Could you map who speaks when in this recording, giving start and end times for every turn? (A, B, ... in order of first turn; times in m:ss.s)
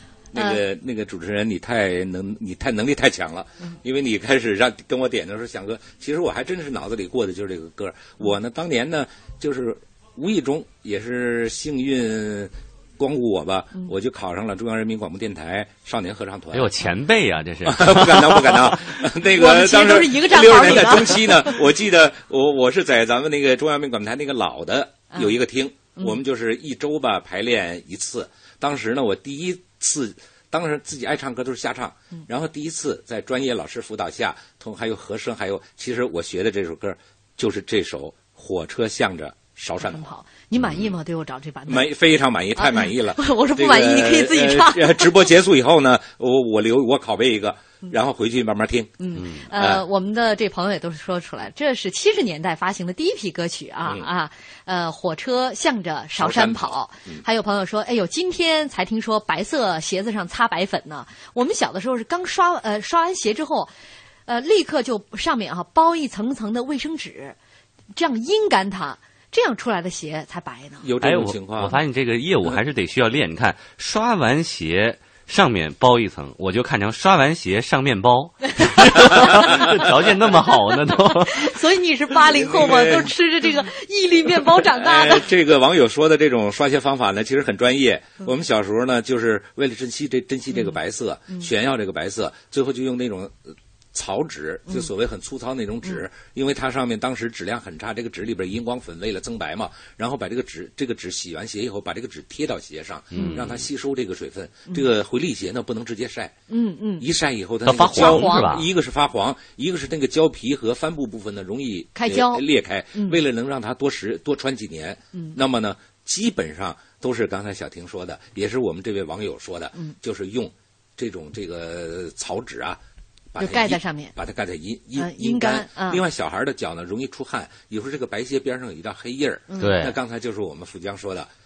0:00.3-0:16.7 A
0:16.5-0:18.8 B
0:17.6-0:40.0 A
0:19.3-0:21.6 C
0:39.9-0:41.9 C
0:40.6-0:40.9 A
0:41.7-0:49.0 A
0:42.6-0:45.1 C
0:49.0-1:03.7 C
0:49.5-0:49.8 A
0:56.2-0:57.2 A
1:04.3-1:07.4 C
1:08.0-1:10.8 C
1:10.8-1:11.8 A
1:11.0-1:21.5 B
1:19.0-1:19.6 A
1:21.2-1:25.3 C
1:22.3-1:23.1 A
1:24.6-1:46.3 A
1:30.5-1:30.8 C
1:43.1-1:43.6 B
1:43.1-1:43.4 C
1:46.5-1:47.0 C
1:47.0-2:02.8 A
1:47.6-1:48.7 B
1:47.9-1:48.5 C
1:52.0-1:53.2 C
2:03.3-2:11.3 A
2:03.4-2:04.1 C
2:05.0-2:06.0 C
2:09.6-2:10.0 B